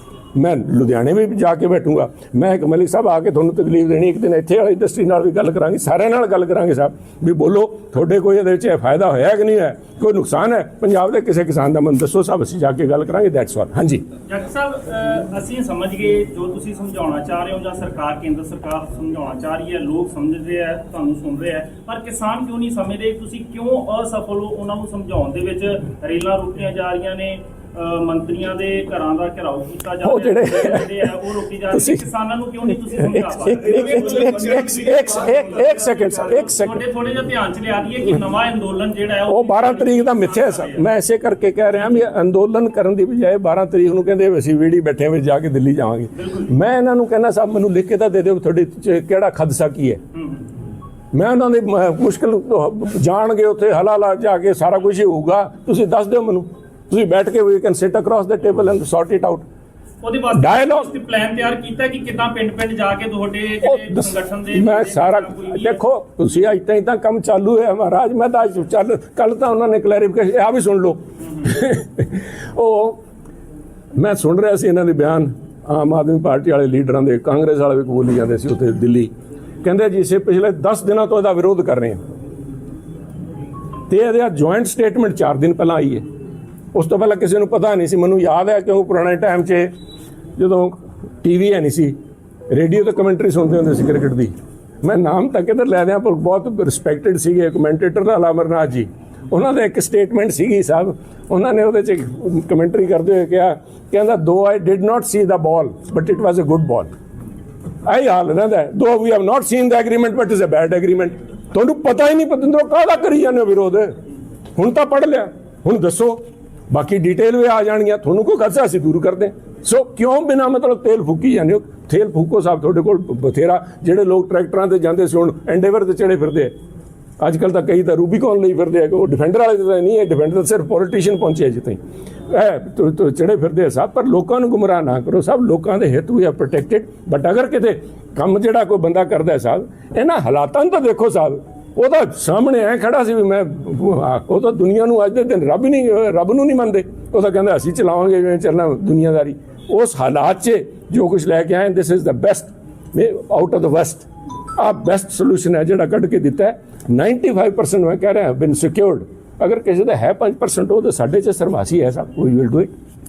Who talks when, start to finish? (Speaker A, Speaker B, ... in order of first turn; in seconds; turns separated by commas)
Speaker A: 0.3-14.0, Speaker B: 14.3-40.8, Speaker A: 30.0-31.1, Speaker A: 31.7-32.0, Speaker A: 32.7-36.8, Speaker A: 39.3-50.0, Speaker B: 46.2-46.5, Speaker A: 51.1-59.4, Speaker B: 60.0-65.8, Speaker A: 60.3-60.9, Speaker A: 63.6-73.0, Speaker A: 74.0-79.1, Speaker A: 79.6-82.0, Speaker A: 83.9-86.0, Speaker A: 86.7-89.7, Speaker A: 90.4-92.0, Speaker A: 92.5-106.9, Speaker A: 107.8-113.9, Speaker A: 114.5-126.5, Speaker A: 127.2-162.7